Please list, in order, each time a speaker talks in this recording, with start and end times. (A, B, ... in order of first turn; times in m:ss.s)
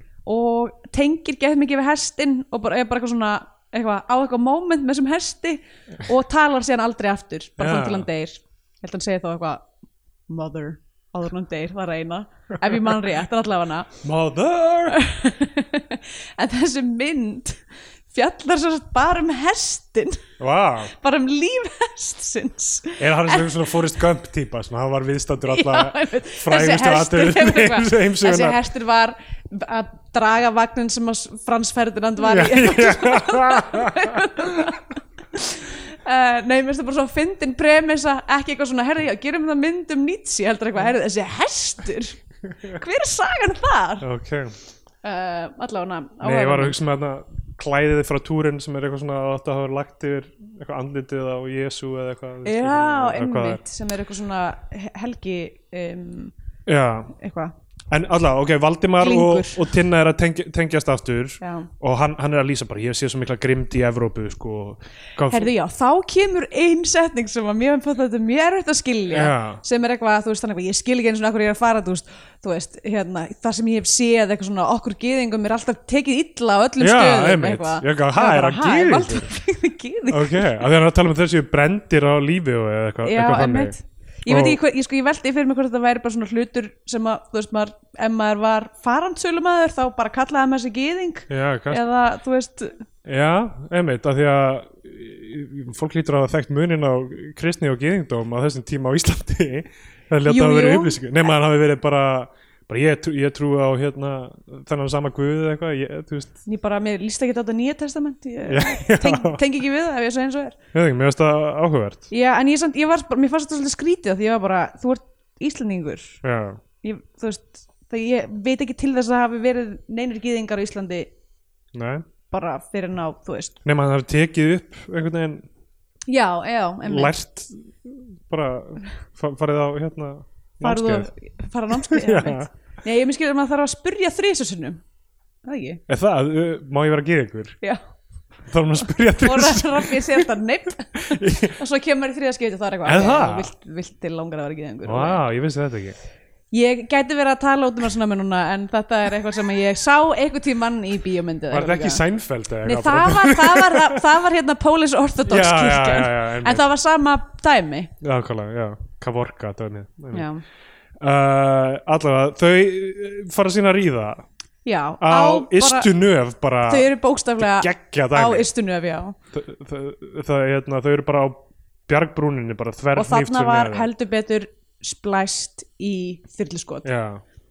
0:00.2-0:09.7 A
0:07.6-0:08.1 B
0:10.3-0:13.9 A
0:14.0-0:15.0 B
0:14.9-0:20.2 A
0:20.4-0:20.9 B
0:20.9-0:23.5 A
0:23.0-0:28.6 B
0:25.5-0:42.2 A
0:32.2-0:34.7 B
0:42.7-0:44.0 A
0:44.0-0:44.5 B
0:45.0-0:46.8 A
0:46.2-0:53.6 B
0:52.4-0:56.3 A
0:56.7-0:57.1 B
0:57.1-0:57.5 A
0:57.9-1:05.5 B
0:59.0-0:59.7 A
1:01.4-1:01.7 A
1:05.3-1:20.7 A
1:09.1-1:09.6 B
1:16.8-1:19.3 B
1:20.1-1:23.8 B
1:23.0-1:32.8 A
1:24.3-1:24.6 B
1:31.3-1:31.8 B
1:33.0-1:46.4 B
1:40.2-1:41.0 A
1:46.4-1:50.6 A
1:48.4-1:49.4 B
1:50.7-1:52.1 B
1:52.1-1:56.2 A
1:56.2-1:56.6 B
1:56.8-2:01.1 A
2:01.7-2:02.0 B
2:02.3-2:03.6 A
2:03.6-2:05.4 B
2:06.1-2:07.1 A
2:06.8-2:11.1 B
2:10.6-2:14.8 A
2:11.7-2:12.5 B
2:15.4-2:15.8 A
2:15.9-2:17.6 B
2:18.5-2:20.3 B
2:18.8-2:25.2 A
2:20.9-2:21.6 B
2:22.8-2:23.5 B
2:24.8-2:26.0 B
2:26.5-2:32.0 A
2:31.5-2:34.0 B
2:32.6-2:37.9 A
2:35.2-2:36.6 B
2:38.0-2:40.3 B
2:40.1-2:40.4 A
2:41.0-2:44.2 B
2:44.6-2:45.9 A
2:45.0-2:48.5 B
2:46.6-2:49.1 A
2:49.3-2:51.4 B
2:51.9-2:53.9 B
2:52.9-2:56.9 A
2:56.8-2:57.2 B